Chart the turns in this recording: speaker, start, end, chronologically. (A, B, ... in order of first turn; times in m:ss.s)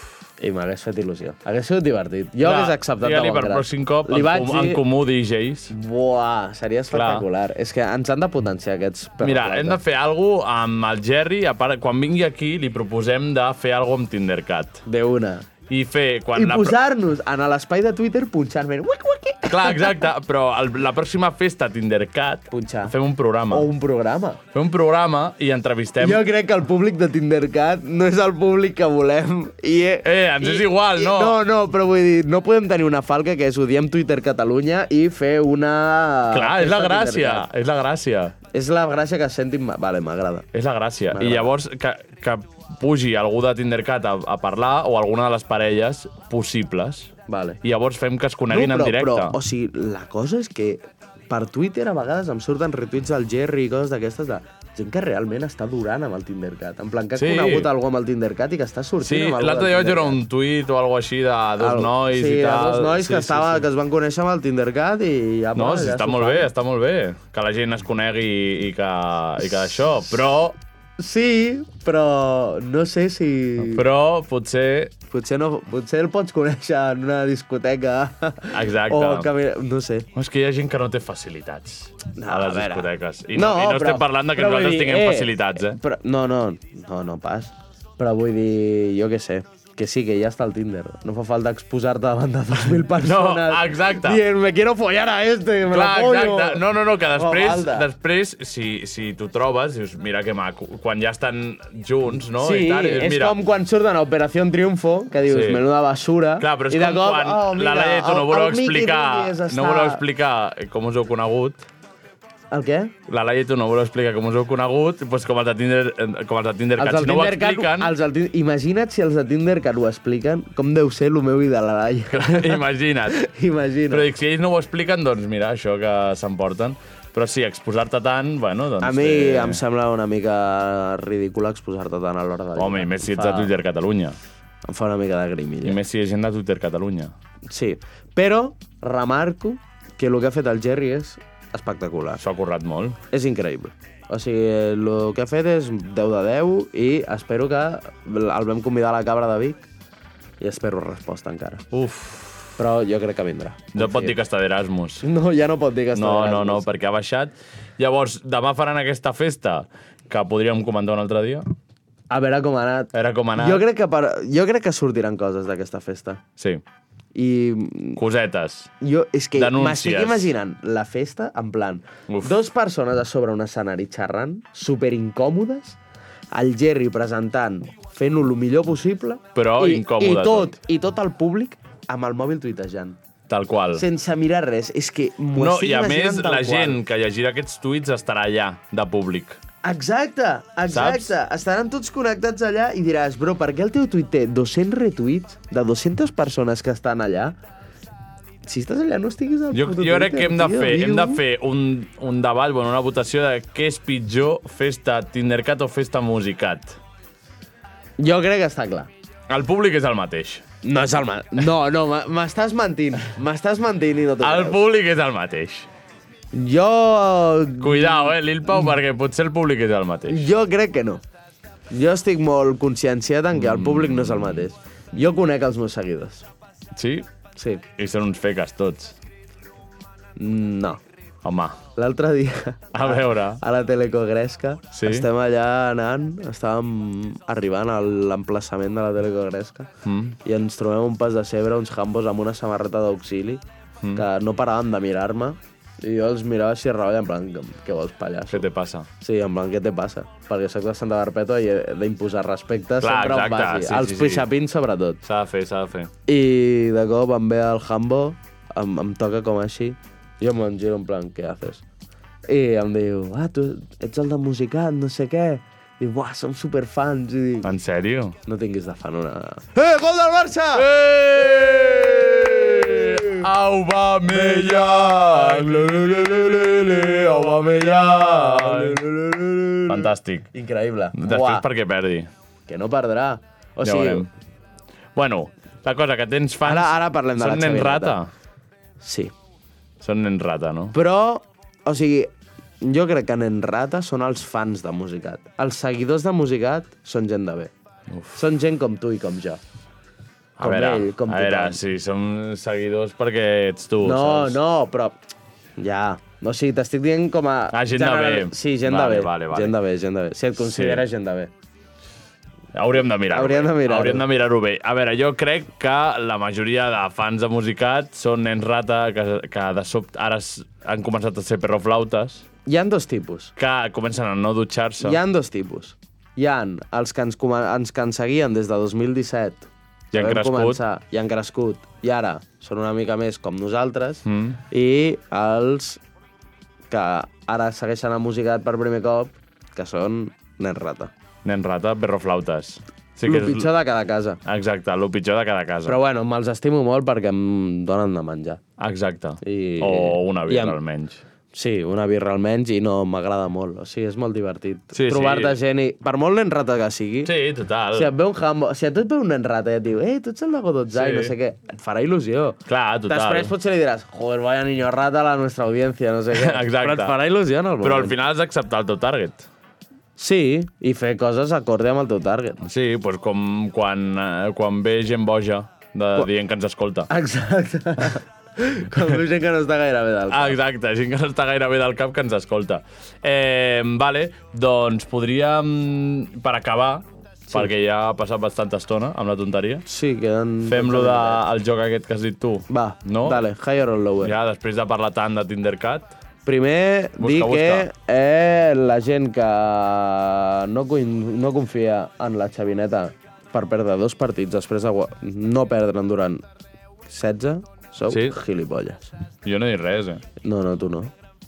0:00.4-0:04.8 A
0:02.4-0:05.7 B
0:05.7-0:09.8 A
0:06.9-0:07.2 B
0:09.2-0:14.8 B
0:14.8-0:15.4 A
0:15.7-0:16.8 B
0:16.3-0:20.0 A
0:19.5-0:23.7 B
0:22.5-0:22.9 A
0:23.5-0:24.4 A
0:24.5-0:26.2 B
0:26.0-0:37.5 A
0:30.0-0:31.4 B
0:36.3-0:38.3 B
0:38.5-0:40.4 A
0:40.5-0:49.4 B
0:41.1-0:41.5 A
0:47.3-0:47.6 A
0:48.5-1:00.2 A
0:57.1-0:57.7 B
0:59.0-1:03.7 B
1:01.6-1:06.5 A
1:05.5-1:10.6 B
1:11.0-1:13.8 A
1:13.6-1:14.9 B
1:15.1-1:20.0 A
1:18.5-1:19.3 B
1:20.1-1:25.8 B
1:22.2-1:37.9 A
1:33.0-1:34.2 B
1:35.6-1:43.4 B
1:42.3-1:50.0 A
1:45.2-1:45.6 B
1:46.4-1:51.6 B
1:52.5-1:52.9 A
1:53.1-1:57.9 B
1:56.8-2:04.1 A
2:02.1-2:03.2 B
2:03.9-2:09.6 B
2:08.8-2:13.5 A
2:12.6-2:14.2 B
2:14.6-2:15.8 A
2:15.6-2:17.1 B
2:17.5-2:22.2 A
2:22.2-2:23.0 B
2:23.1-2:29.6 A
2:30.4-2:31.6 A
2:31.7-2:32.6 B
2:32.6-2:34.2 A
2:33.7-2:35.0 B
2:35.0-2:36.6 A
2:35.9-2:41.5 B
2:42.1-2:46.2 A
2:42.9-2:43.6 B
2:46.4-2:46.6 B
2:47.1-2:48.0 A
2:48.0-2:48.7 B
2:48.8-2:55.8 A
2:49.3-2:50.3 B
2:52.1-2:52.3 B
2:56.3-3:03.0 A
2:59.3-3:00.5 B
3:03.3-3:03.8 B
3:03.7-3:06.8 A
3:05.3-3:09.4 B
3:09.6-3:17.4 A
3:10.7-3:11.1 B
3:18.4-3:21.2 A
3:19.5-3:26.8 B
3:28.0-3:28.9 A
3:29.3-3:30.4 B
3:30.6-3:34.6 A
3:34.2-3:35.7 B
3:36.3-3:38.7 A
3:37.6-3:40.3 B
3:40.1-3:41.0 A
3:41.7-3:46.2 A
3:43.3-3:44.5 B
3:46.7-3:47.1 B
3:47.4-3:47.6 A
3:47.8-3:49.0 B
3:50.2-3:50.8 A
3:51.2-3:51.6 B
3:51.8-3:59.7 A
3:52.7-3:53.4 B
3:54.7-3:55.1 B
3:59.8-4:00.2 B
4:00.2-4:03.4 A
4:03.9-4:08.5 A
4:08.3-4:08.9 B
4:09.0-4:15.0 A
4:12.8-4:14.3 B
4:15.0-4:15.9 B
4:16.1-4:21.6 A
4:22.3-4:27.5 A
4:27.4-4:28.2 B
4:28.2-4:33.2 A
4:30.5-4:38.8 B
4:34.1-4:41.4 A
4:39.7-4:40.3 B
4:40.9-4:42.1 B
4:42.5-4:44.1 A
4:43.6-4:44.1 B
4:44.9-4:48.1 B
4:46.4-4:48.0 A
4:48.8-4:49.1 A
4:49.8-4:50.7 B
4:50.7-4:57.5 A
4:57.9-4:58.2 B
4:58.1-4:59.4 A
5:00.4-5:01.6 A
5:00.4-5:04.4 B
5:03.8-5:05.0 A
5:05.6-5:11.3 A
5:07.5-5:09.6 B
5:10.4-5:10.8 B
5:12.5-5:22.2 B
5:13.1-5:14.0 A
5:22.4-5:23.3 A
5:23.4-5:25.0 B
5:24.8-5:35.8 A
5:29.9-5:30.6 B
5:34.0-5:34.4 B
5:36.7-5:40.9 A
5:41.2-5:43.5 B
5:43.0-5:44.2 A
5:44.2-5:45.8 B
5:45.6-5:48.4 A
5:48.6-5:51.0 B
5:49.2-5:50.6 A
5:51.3-5:57.1 A
5:54.7-5:55.4 B
5:57.0-5:57.9 B
5:57.7-6:07.9 A
6:00.7-6:01.1 B
6:02.5-6:03.3 B
6:06.1-6:07.0 B
6:07.6-6:09.3 B
6:10.0-6:12.4 A
6:12.4-6:16.9 B
6:16.9-6:20.4 A
6:20.1-6:29.6 B
6:29.6-6:31.2 A
6:30.4-6:33.2 B
6:32.5-6:34.1 A
6:34.0-6:35.9 B
6:36.2-6:46.2 A
6:37.0-6:37.7 B
6:46.9-6:48.9 A
6:47.9-6:48.2 B
6:49.2-6:50.0 B
6:50.2-6:50.9 A